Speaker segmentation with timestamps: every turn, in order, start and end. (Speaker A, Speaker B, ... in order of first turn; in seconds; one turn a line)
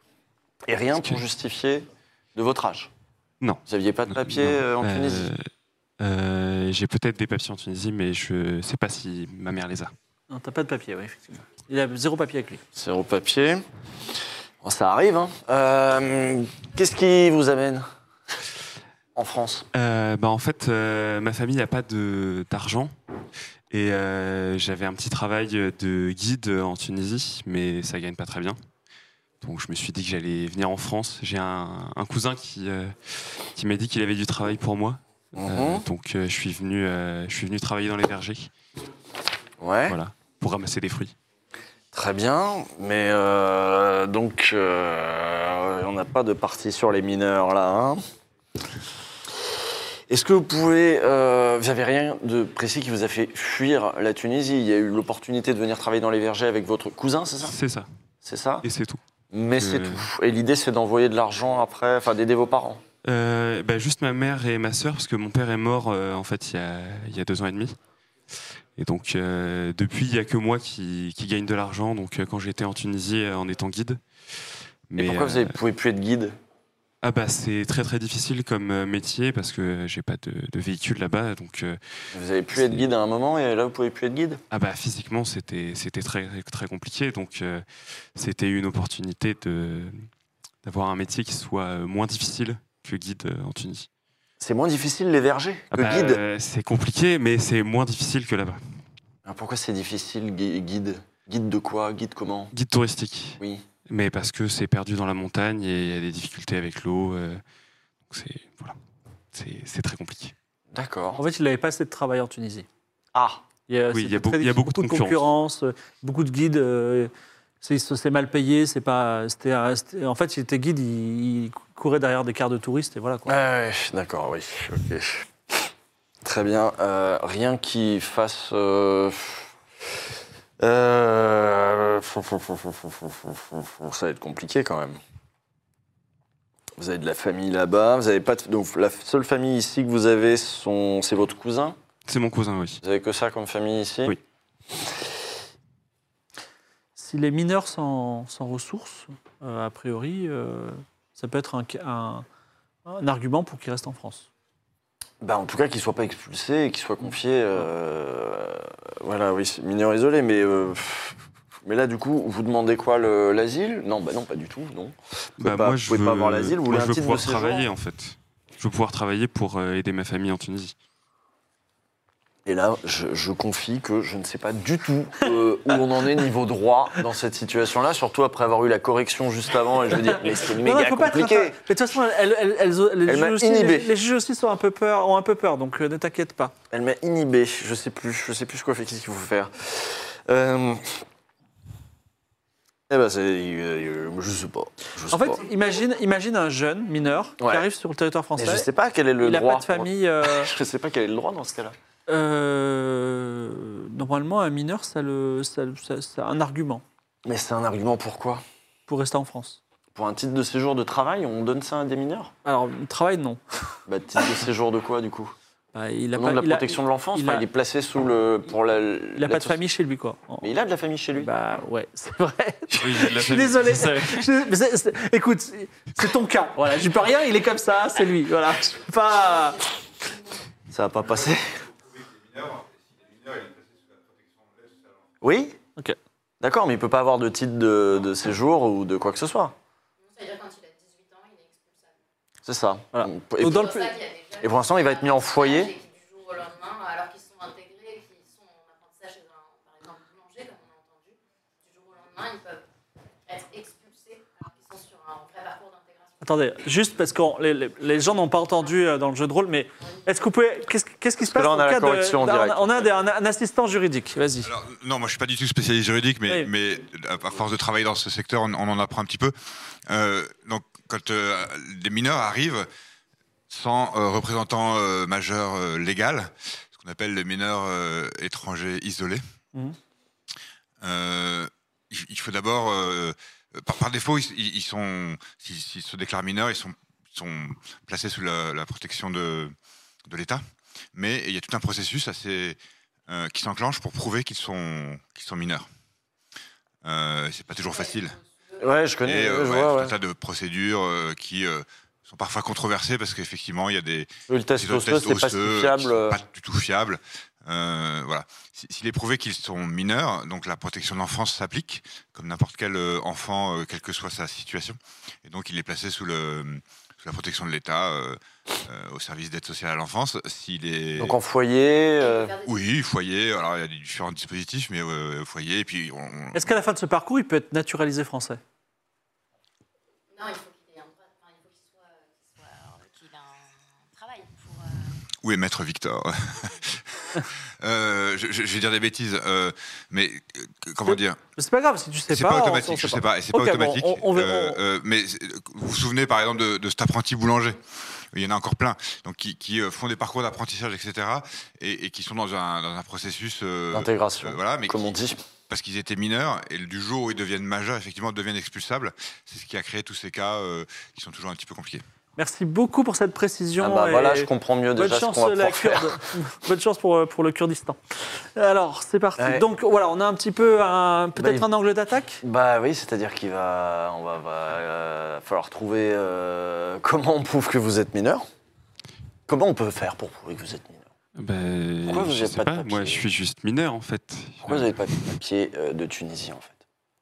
Speaker A: 0.7-2.9
Speaker B: 3.4-5.5
Speaker A: 3.7-5.3
Speaker B: 6.0-9.9
Speaker C: 10.3-12.6
Speaker A: 12.7-13.6
Speaker A: 14.6-17.9
Speaker A: 19.1-19.6
Speaker B: 19.7-22.9
Speaker B: 23.7-28.6
Speaker B: 29.4-38.5
Speaker A: 35.4-35.8
Speaker A: 39.6-40.0
Speaker B: 39.9-41.1
Speaker A: 41.9-48.0
Speaker A: 50.1-57.5
Speaker B: 57.4-57.9
Speaker A: 58.2-58.6
Speaker B: 58.6-59.0
Speaker A: 59.3-62.8
Speaker B: 59.5-60.1
Speaker B: 63.0-67.8
Speaker B: 68.8-74.0
Speaker B: 74.9-75.5
Speaker A: 75.0-76.3
Speaker B: 77.0-81.8
Speaker A: 82.1-84.4
Speaker B: 82.5-82.8
Speaker B: 84.5-90.1
Speaker B: 90.6-93.9
Speaker A: 94.4-96.2
Speaker B: 95.7-98.6
Speaker A: 99.2-102.5
Speaker B: 102.5-107.4
Speaker B: 108.1-108.8
Speaker B: 109.3-110.3
Speaker A: 110.7-111.2
Speaker C: 111.2-112.7
Speaker A: 113.1-113.4
Speaker C: 113.7-123.3
Speaker B: 113.9-115.2
Speaker A: 123.2-125.7
Speaker A: 126.2-129.5
Speaker A: 130.6-135.0
Speaker A: 136.8-141.8
Speaker B: 142.1-142.8
Speaker A: 142.8-144.2
Speaker C: 146.9-152.2
Speaker C: 152.8-154.3
Speaker A: 155.2-167.7
Speaker B: 165.4-170.7
Speaker A: 172.4-181.6
Speaker C: 180.5-186.5
Speaker A: 183.1-183.9
Speaker A: 186.7-191.0
Speaker A: 192.9-195.4
Speaker C: 195.1-198.7
Speaker A: 197.4-197.7
Speaker A: 198.3-201.7
Speaker C: 199.2-200.5
Speaker C: 202.1-206.8
Speaker A: 207.2-208.4
Speaker C: 208.9-209.6
Speaker A: 209.9-212.3
Speaker C: 212.4-213.4
Speaker A: 213.9-215.3
Speaker C: 215.7-217.4
Speaker A: 216.1-219.6
Speaker C: 219.2-220.5
Speaker A: 220.4-221.3
Speaker C: 221.2-229.7
Speaker B: 222.7-224.3
Speaker A: 230.7-231.6
Speaker D: 232.0-234.8
Speaker A: 235.2-235.6
Speaker A: 236.4-239.5
Speaker E: 240.0-241.9
Speaker A: 242.4-243.8
Speaker C: 242.9-243.9
Speaker E: 243.4-252.6
Speaker A: 244.4-245.7
Speaker E: 253.3-256.5
Speaker C: 256.2-264.5
Speaker E: 259.8-260.2
Speaker A: 261.2-262.9
Speaker D: 264.4-269.3
Speaker D: 269.9-272.7
Speaker D: 273.5-279.2
Speaker D: 280.8-289.5
Speaker D: 290.1-290.4
Speaker D: 290.9-295.6
Speaker D: 296.8-298.2
Speaker A: 298.6-299.9
Speaker D: 299.0-321.2
Speaker A: 304.3-306.2
Speaker A: 321.0-322.3
Speaker E: 322.0-322.6
Speaker D: 322.4-326.5
Speaker C: 326.3-328.4
Speaker E: 330.1-334.9
Speaker D: 335.2-336.8
Speaker D: 337.6-341.2
Speaker C: 340.8-344.6
Speaker D: 342.1-347.6
Speaker D: 348.1-354.9
Speaker A: 353.7-355.2
Speaker D: 355.5-361.8
Speaker C: 362.2-372.2
Speaker A: 363.6-366.0
Speaker A: 369.2-369.4
Speaker A: 371.2-371.4
Speaker A: 372.2-378.3
Speaker A: 379.3-380.8
Speaker B: 381.2-384.9
Speaker A: 381.9-383.0
Speaker A: 384.4-386.6